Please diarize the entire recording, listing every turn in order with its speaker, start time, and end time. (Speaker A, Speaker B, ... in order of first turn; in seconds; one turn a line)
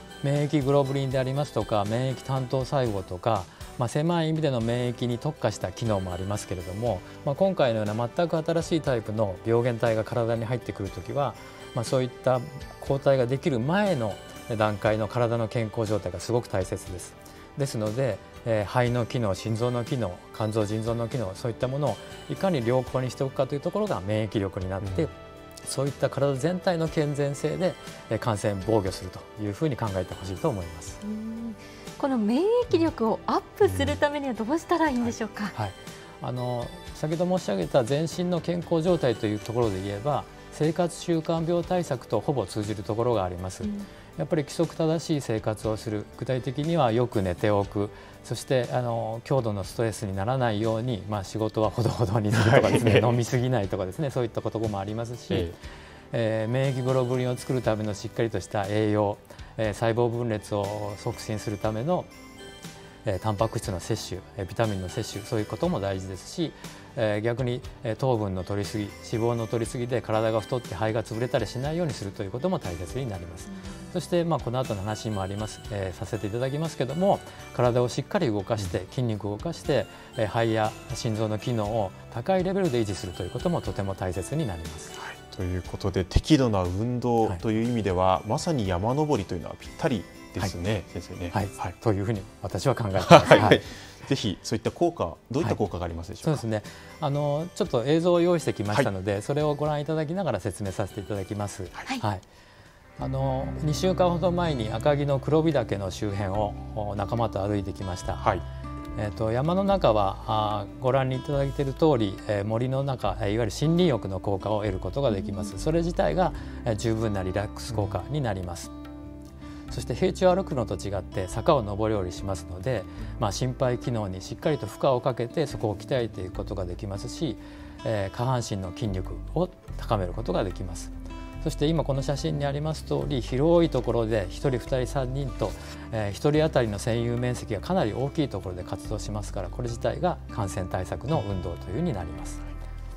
Speaker A: 0.2-25.1
Speaker B: 24.8-25.1
Speaker A: 25.6-31.0
Speaker C: 31.0-35.5
Speaker B: 33.6-34.0
Speaker A: 35.0-55.5
Speaker C: 43.6-43.9
Speaker B: 52.3-53.1
Speaker B: 55.3-55.6
Speaker A: 56.1-62.1
Speaker A: 63.0-84.9
Speaker B: 85.0-91.7
Speaker A: 91.3-93.6
Speaker B: 93.1-96.4
Speaker A: 96.2-102.2
Speaker A: 103.0-108.3
Speaker A: 109.0-118.7
Speaker A: 119.7-142.4